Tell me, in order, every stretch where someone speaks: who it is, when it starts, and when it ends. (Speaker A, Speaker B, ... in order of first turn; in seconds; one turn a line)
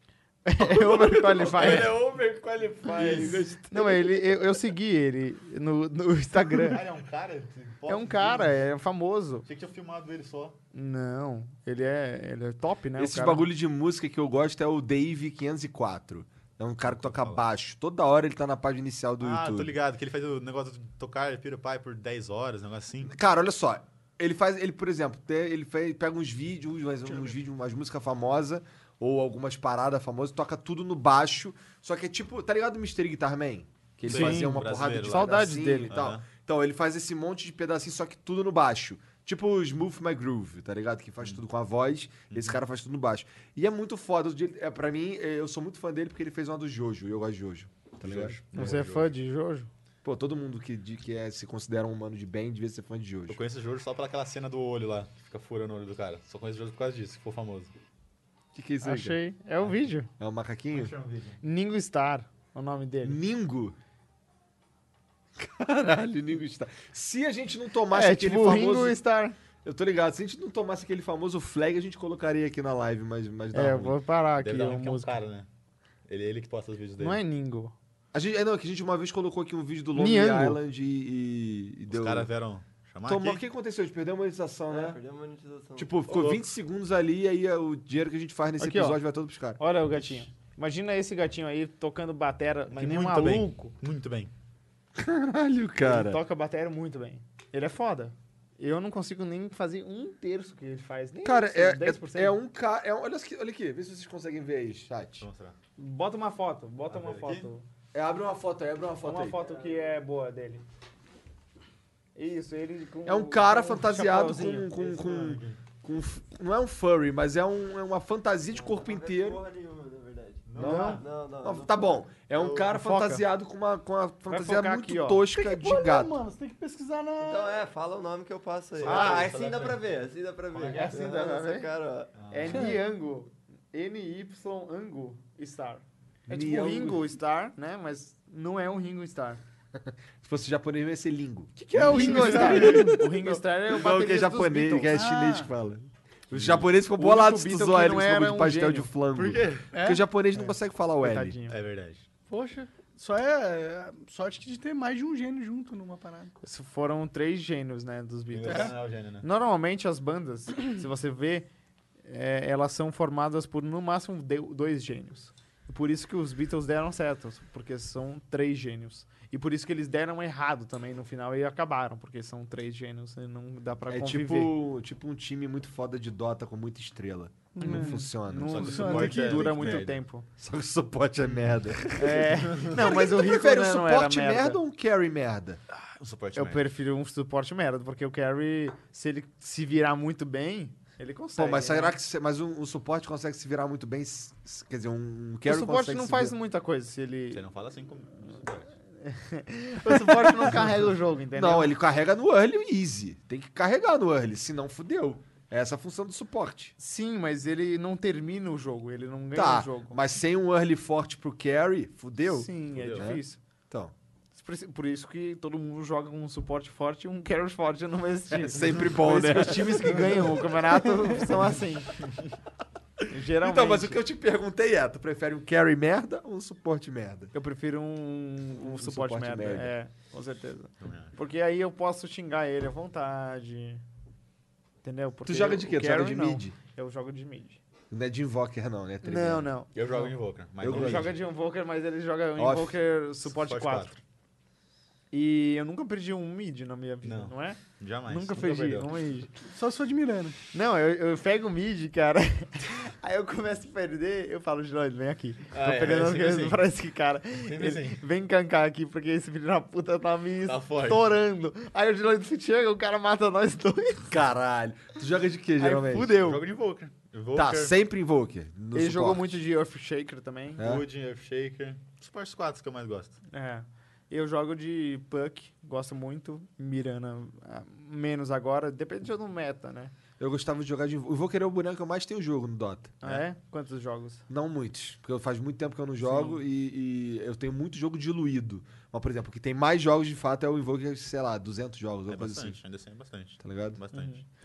Speaker A: 0.4-1.9
Speaker B: 0.7-4.5
Speaker C: 1.1-2.1
Speaker C: 2.8-3.5
Speaker A: 3.1-6.8
Speaker C: 6.6-8.6
Speaker A: 7.9-9.4
Speaker C: 9.4-10.6
Speaker A: 10.7-13.5
Speaker B: 13.0-19.7
Speaker C: 16.8-17.4
Speaker C: 19.2-23.1
Speaker B: 23.0-48.7
Speaker C: 34.0-36.3
Speaker A: 34.1-35.9
Speaker C: 42.3-42.6
Speaker C: 48.0-49.1
Speaker A: 48.5-49.7
Speaker B: 50.0-53.4
Speaker C: 53.3-57.7
Speaker B: 58.5-59.2
Speaker A: 58.8-60.1
Speaker B: 60.2-60.9
Speaker C: 60.7-61.4
Speaker A: 61.4-63.2
Speaker B: 63.0-63.7
Speaker B: 65.4-69.0
Speaker A: 67.9-69.3
Speaker B: 69.6-74.0
Speaker A: 73.5-75.2
Speaker C: 74.4-75.5
Speaker C: 76.1-77.2
Speaker A: 77.0-77.7
Speaker B: 78.1-82.3
Speaker A: 79.9-80.6
Speaker C: 81.9-83.4
Speaker B: 83.0-85.0
Speaker D: 84.7-86.0
Speaker B: 85.8-90.1
Speaker C: 86.1-86.4
Speaker A: 88.6-89.0
Speaker A: 89.6-93.7
Speaker C: 92.7-94.3
Speaker B: 95.0-96.2
Speaker A: 95.8-102.4
Speaker B: 101.2-105.2
Speaker C: 105.2-105.5
Speaker A: 105.8-107.6
Speaker C: 106.9-107.5
Speaker B: 107.9-109.4
Speaker A: 109.0-110.6
Speaker D: 109.4-109.8
Speaker A: 112.2-114.7
Speaker B: 113.0-119.4
Speaker C: 114.7-115.6
Speaker D: 118.5-122.0
Speaker C: 120.5-121.1
Speaker A: 120.6-121.0
Speaker B: 121.4-126.1
Speaker C: 122.4-122.7
Speaker A: 122.7-123.2
Speaker A: 124.3-125.2
Speaker E: 125.3-127.6
Speaker D: 127.2-132.1
Speaker C: 128.8-129.9
Speaker B: 128.9-129.3
Speaker C: 130.5-131.0
Speaker A: 130.7-131.7
Speaker C: 132.1-132.8
Speaker A: 132.3-139.4
Speaker B: 136.3-137.1
Speaker B: 139.8-151.4
Speaker E: 141.6-143.4
Speaker A: 141.8-145.0
Speaker C: 142.4-142.7
Speaker E: 144.9-145.5
Speaker A: 146.8-148.9
Speaker C: 149.1-149.7
Speaker E: 149.7-150.0
Speaker A: 150.3-151.6
Speaker C: 151.5-152.1
Speaker E: 152.3-156.3
Speaker A: 156.4-161.5
Speaker C: 158.3-159.2
Speaker E: 158.4-158.7
Speaker A: 162.1-174.6
Speaker B: 173.9-179.9
Speaker E: 177.5-178.0
Speaker A: 177.6-180.3
Speaker C: 178.4-180.0
Speaker E: 178.7-179.4
Speaker B: 180.4-185.6
Speaker A: 181.9-184.6
Speaker C: 182.5-182.8
Speaker C: 186.0-186.6
Speaker A: 186.3-191.9
Speaker B: 191.3-196.3
Speaker A: 195.4-197.4
Speaker C: 197.3-198.7
Speaker A: 199.0-201.7
Speaker B: 201.3-206.7
Speaker A: 206.8-210.0
Speaker B: 209.3-213.9
Speaker A: 212.2-213.4
Speaker C: 212.7-213.1
Speaker A: 214.3-221.9
Speaker B: 218.3-220.4
Speaker A: 223.1-224.0
Speaker B: 223.4-227.3
Speaker A: 227.3-233.8
Speaker B: 228.6-229.7
Speaker C: 230.8-231.1
Speaker A: 234.8-237.6
Speaker B: 235.2-236.6
Speaker B: 237.9-239.5
Speaker A: 239.0-240.1
Speaker C: 239.7-241.2
Speaker B: 240.6-241.1
Speaker A: 240.6-244.0
Speaker B: 242.4-242.8
Speaker C: 243.2-244.0
Speaker A: 245.1-249.3
Speaker C: 247.0-249.0
Speaker E: 249.4-250.4
Speaker A: 250.5-264.2
Speaker C: 255.5-256.6
Speaker C: 257.4-258.0
Speaker C: 260.4-261.1
Speaker B: 264.1-266.2
Speaker A: 265.6-266.4
Speaker C: 266.1-267.7
Speaker B: 267.3-269.4
Speaker A: 268.7-270.6
Speaker C: 270.6-273.1
Speaker B: 270.6-270.8
Speaker A: 273.3-279.9
Speaker B: 280.2-283.0
Speaker A: 283.0-284.2
Speaker B: 284.3-292.6
Speaker A: 286.0-286.4
Speaker C: 292.1-294.2
Speaker B: 293.4-293.8
Speaker A: 293.9-294.2